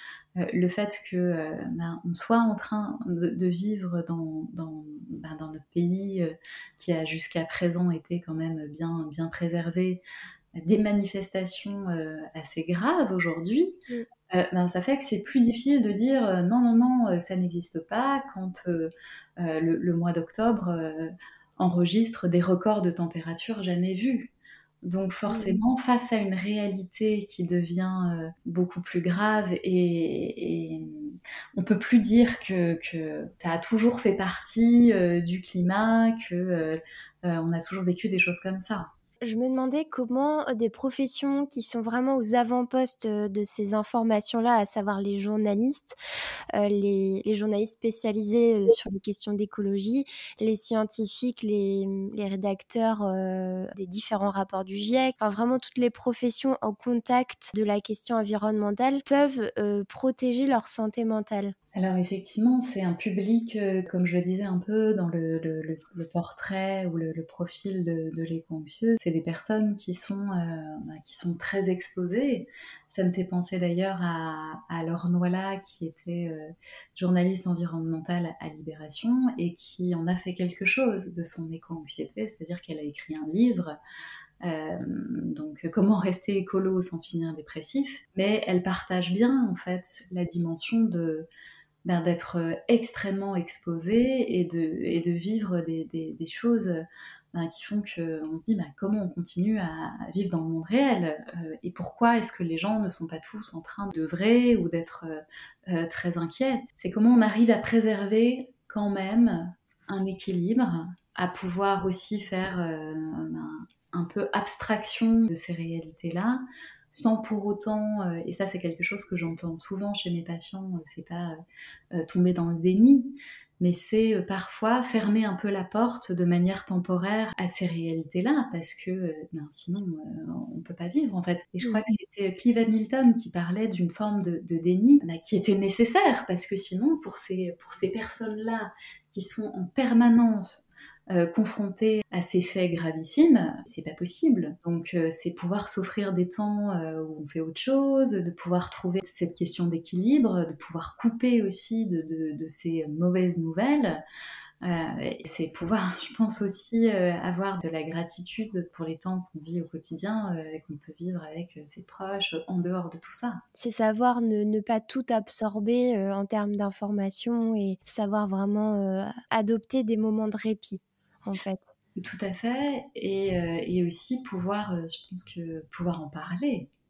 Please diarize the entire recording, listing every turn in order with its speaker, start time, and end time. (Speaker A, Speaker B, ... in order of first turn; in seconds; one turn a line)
Speaker A: 0.4-10.0
Speaker A: 10.6-13.8
Speaker A: 14.3-24.3
Speaker A: 24.8-38.9
Speaker B: 25.3-25.6
Speaker B: 39.2-46.0
Speaker B: 46.5-61.5
Speaker A: 61.7-83.8
Speaker A: 84.4-91.3
Speaker A: 91.8-121.4
Speaker A: 121.9-154.0
Speaker B: 131.6-131.9
Speaker A: 154.6-163.4
Speaker B: 163.5-171.6
Speaker A: 171.9-176.7